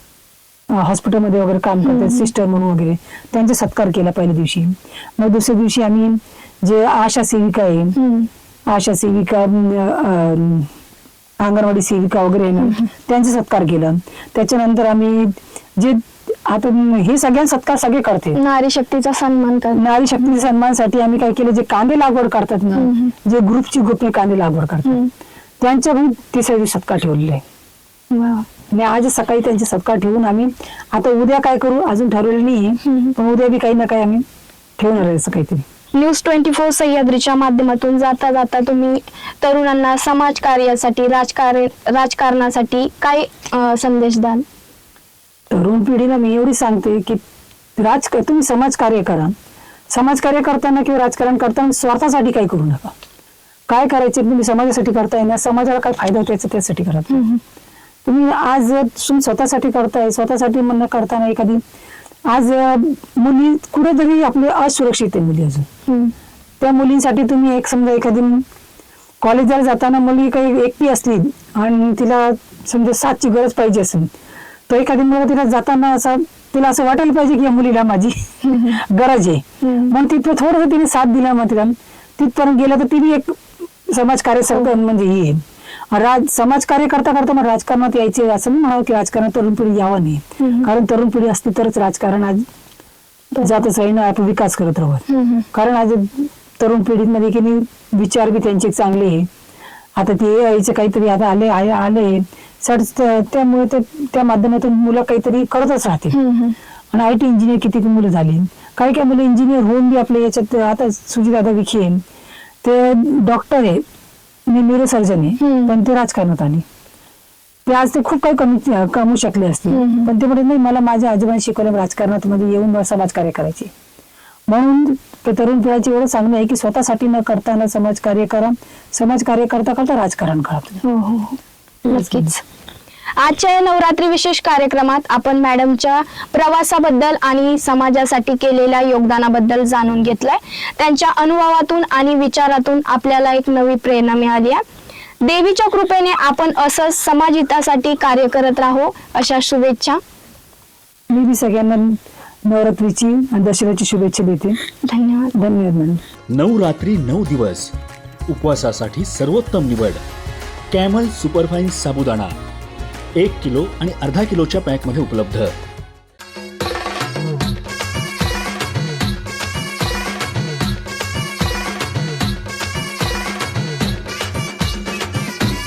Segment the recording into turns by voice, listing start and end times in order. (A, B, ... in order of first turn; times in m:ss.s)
0:00.7-0:08.0 A
0:01.8-0:02.3 B
0:08.0-0:08.3 B
0:08.7-0:10.7 A
0:11.4-0:18.4 A
0:12.6-0:12.9 B
0:18.3-0:19.8 B
0:19.7-0:25.0 A
0:22.7-0:23.1 B
0:25.6-0:27.4 A
0:28.1-0:28.5 B
0:28.7-0:34.2 A
0:32.8-0:33.1 B
0:34.8-0:35.6 A
0:35.9-0:44.4 B
0:45.5-0:47.2 A
0:47.8-0:49.3 A
0:49.9-0:52.9 A
0:53.7-0:57.2 A
0:57.1-0:57.4 B
0:58.0-1:01.6 A
1:02.3-1:05.7 A
1:05.9-1:06.1 B
1:06.6-1:08.4 A
1:09.2-1:14.1 A
1:14.7-1:25.4 A
1:18.4-1:18.8 B
1:19.6-1:19.9 B
1:25.9-1:32.4 A
1:30.4-1:30.7 B
1:33.3-1:33.7 B
1:33.4-1:39.3 A
1:35.1-1:35.4 B
1:40.0-1:46.2 A
1:46.1-1:46.6 B
1:46.9-1:52.0 A
1:52.6-1:53.8 A
1:54.5-1:56.6 A
1:55.4-1:55.7 B
1:57.6-2:03.7 A
1:59.7-2:00.1 B
2:04.5-2:10.8 A
2:10.8-2:12.4 B
2:11.9-2:12.3 A
2:13.2-2:24.6 B
2:25.2-2:30.0 B
2:31.1-2:34.6 A
2:34.8-2:35.4 B
2:35.3-2:36.0 A
2:36.5-2:37.7 C
2:38.4-2:40.0 C
2:40.7-2:42.2 C
2:43.2-2:45.4 C